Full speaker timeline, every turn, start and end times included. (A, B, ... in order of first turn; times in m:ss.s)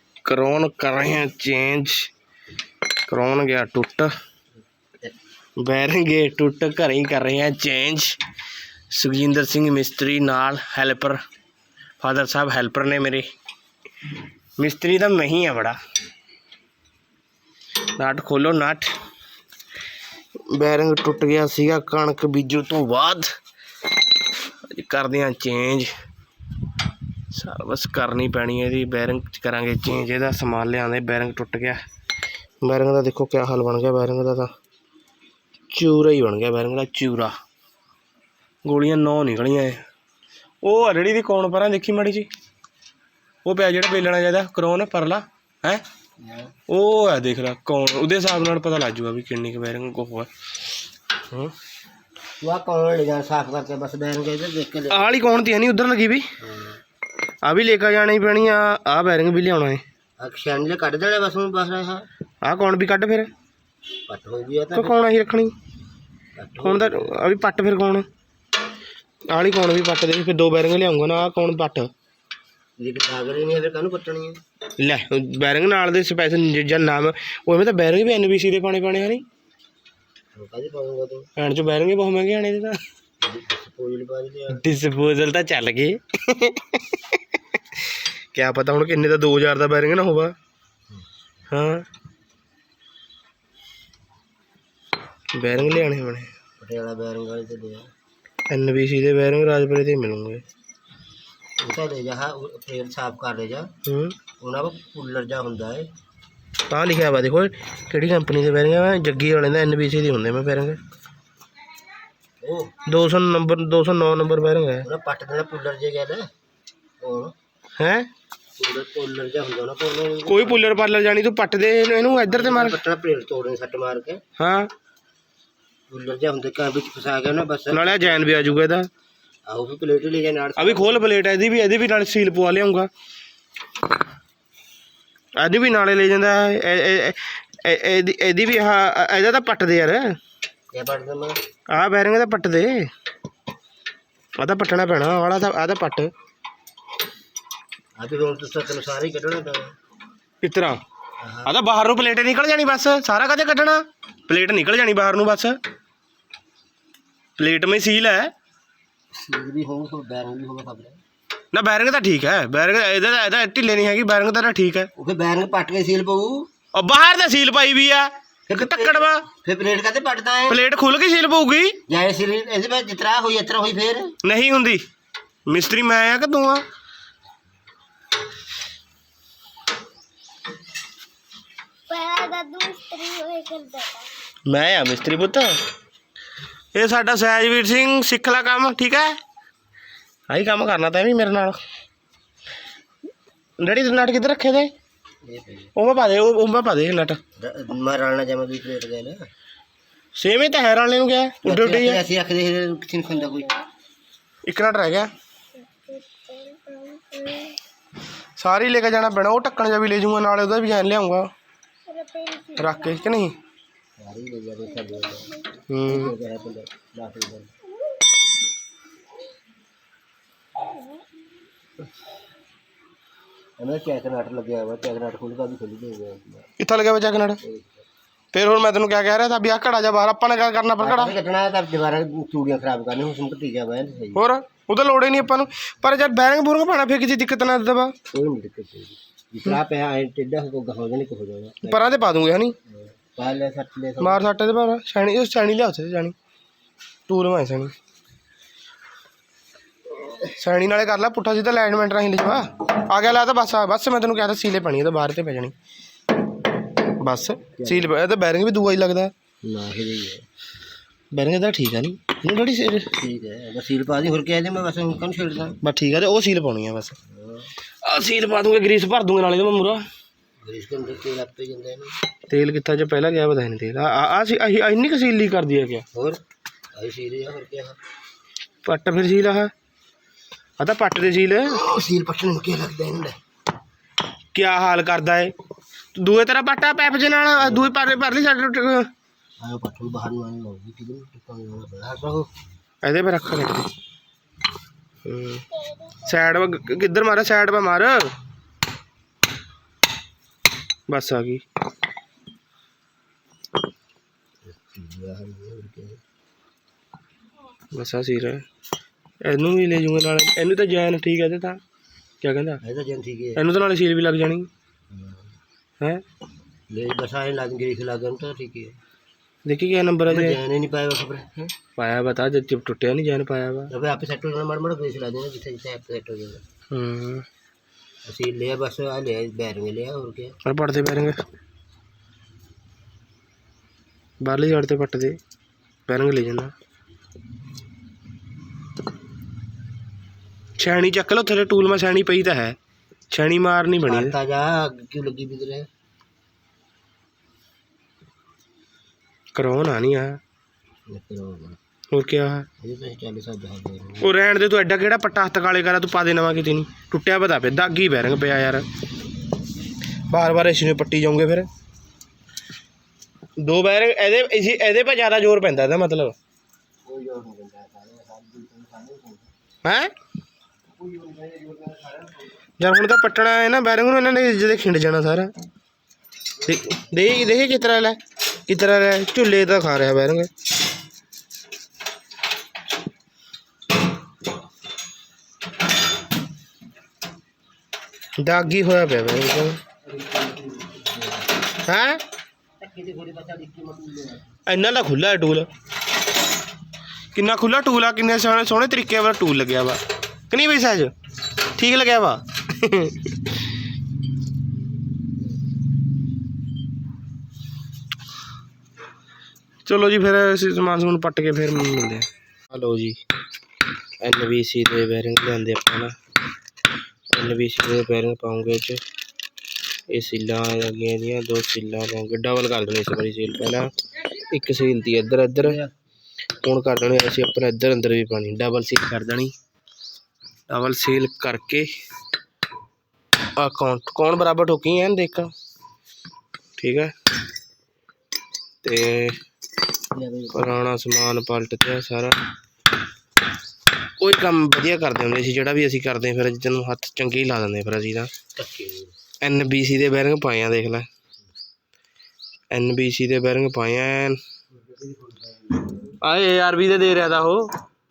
0:00.2-0:02.1 A
0:03.1-0:04.1 A
0:05.6-0:08.2 A
0:08.9-0:11.2 A
0:12.0-0:13.3 A
0:14.6-0:15.8 A
0:18.0-0:18.9 A
0:20.5-0:23.3 A
0:24.4-0:25.9 A
0:27.3-0:31.8 A
0:32.6-0:34.5 A
0:35.7-0:37.3 A
0:38.6-0:39.8 A
0:40.6-0:42.3 A
0:43.4-0:45.8 A
0:46.2-0:46.5 B
0:46.7-0:50.3 A
0:51.2-0:51.5 A
0:52.4-0:55.1 B
0:54.9-0:56.3 A
0:56.4-0:56.8 B
0:57.4-0:59.8 A
1:00.2-1:02.0 B
1:02.4-1:03.3 A
1:04.1-1:05.0 B
1:04.8-1:05.5 A
1:06.4-1:07.2 B
1:06.6-1:08.1 A
1:09.3-1:11.9 A
1:12.8-1:14.4 B
1:14.8-1:19.2 A
1:20.4-1:21.3 B
1:21.4-1:22.8 A
1:23.2-1:24.6 B
1:24.5-1:27.2 A
1:28.3-1:30.3 A
1:31.5-1:31.9 A
1:35.4-1:36.3 A
1:36.6-1:37.9 B
1:38.5-1:40.4 A
1:41.6-1:43.7 B
1:43.8-1:44.2 A
1:44.4-1:45.9 B
1:46.7-1:50.8 A
1:52.4-1:52.7 B
1:52.9-1:54.9 A
1:54.8-1:56.3 B
1:57.0-1:57.3 B
1:57.8-1:58.1 A
1:58.6-2:00.6 B
2:00.3-2:02.8 A
2:02.3-2:04.2 B
2:04.4-2:04.7 A
2:05.9-2:08.6 B
2:07.7-2:08.9 A
2:09.5-2:11.0 B
2:10.6-2:12.9 A
2:15.4-2:20.1 A
2:20.7-2:21.4 B
2:21.7-2:22.9 A
2:24.4-2:26.1 A
2:28.0-2:29.7 B
2:30.4-2:30.8 A
2:31.2-2:31.5 B
2:31.5-2:35.6 A
2:37.4-2:38.3 A
2:39.2-2:41.0 B
2:41.5-2:44.9 A
2:45.0-2:46.5 B
2:46.7-2:49.2 A
2:48.5-2:50.6 B
2:50.5-2:51.8 A
2:51.9-2:54.2 B
2:54.2-2:54.8 A
2:55.5-2:56.6 A
3:01.9-3:04.1 C
3:04.5-3:05.5 A
3:06.7-3:09.2 A
3:10.3-3:11.6 A
3:13.6-3:14.7 A
3:15.3-3:15.7 B
3:15.8-3:17.2 A
3:17.4-3:19.2 B
3:20.2-3:22.0 A
3:21.4-3:23.6 B
3:24.5-3:25.1 A
3:25.6-3:27.6 C
3:28.4-3:31.3 A
3:31.9-3:33.0 C
3:32.6-3:33.4 A
3:34.0-3:37.6 B
3:35.7-3:36.1 A
3:43.6-3:46.5 B
3:46.6-3:47.4 A
3:47.4-3:47.8 B
3:48.3-3:51.2 A
3:50.8-3:54.2 B
3:54.2-3:58.0 A
3:58.1-4:01.8 B
4:01.7-4:02.6 A
4:03.2-4:04.3 B
4:04.0-4:06.2 A
4:07.1-4:07.7 A
4:10.3-4:15.5 A
4:16.9-4:19.1 A
4:17.5-4:17.9 B
4:19.4-4:20.2 B
4:21.1-4:22.9 A
4:22.9-4:25.6 B
4:25.6-4:27.0 A
4:27.1-4:27.5 B
4:27.8-4:29.8 A
4:30.4-4:32.0 B
4:32.3-4:35.8 A
4:35.9-4:36.2 B
4:36.7-4:37.8 B
4:38.6-4:39.5 A
4:40.6-4:41.6 A
4:41.5-4:43.2 B
4:44.3-4:45.3 A
4:46.0-4:48.9 A
4:47.4-4:47.8 B
4:49.4-4:52.3 B
4:52.8-4:53.7 A
4:55.0-4:55.5 A
4:56.0-4:58.1 A
5:00.9-5:01.4 A
5:04.5-5:06.0 B
5:07.7-5:08.4 A
5:09.2-5:11.6 A
5:12.2-5:12.6 A
5:12.6-5:13.4 B
5:13.4-5:14.5 A
5:14.9-5:15.3 B
5:16.7-5:18.8 B
5:19.4-5:20.4 A
5:20.1-5:21.5 B
5:21.8-5:23.7 A
5:23.7-5:26.4 B
5:26.7-5:27.3 A
5:28.1-5:30.4 B
5:30.4-5:31.2 A
5:34.2-5:35.2 A
5:35.9-5:36.5 A
5:40.6-5:42.6 A
5:43.1-5:44.2 A
5:43.9-5:45.7 B
5:49.4-5:50.2 A
5:50.9-5:51.6 B
5:51.9-5:52.5 A
5:52.6-5:54.1 B
5:54.0-5:58.7 A
6:00.1-6:01.5 A
6:03.4-6:06.2 A
6:06.9-6:09.3 B
6:09.6-6:09.9 A
6:10.8-6:12.4 B
6:12.6-6:15.3 A
6:16.4-6:20.3 A
6:28.2-6:29.6 A
6:29.9-6:31.3 B
6:31.6-6:32.0 A
6:32.6-6:34.3 B
6:34.5-6:35.5 A
6:37.1-6:40.9 A
6:41.6-6:43.4 A
6:49.7-6:53.0 A
6:54.0-6:55.9 A
6:57.1-6:58.8 A
6:59.9-7:03.7 A
7:04.3-7:05.6 A
7:05.4-7:05.7 B
7:06.4-7:09.3 A
7:10.5-7:11.7 A
7:13.4-7:15.3 A
7:16.6-7:16.9 A
7:18.6-7:19.2 A
7:19.9-7:20.7 B
7:20.3-7:22.2 A
7:24.0-7:28.1 A
7:28.4-7:28.9 B
7:29.2-7:30.9 A
7:32.5-7:34.2 A
7:34.5-7:36.0 B
7:36.0-7:37.5 A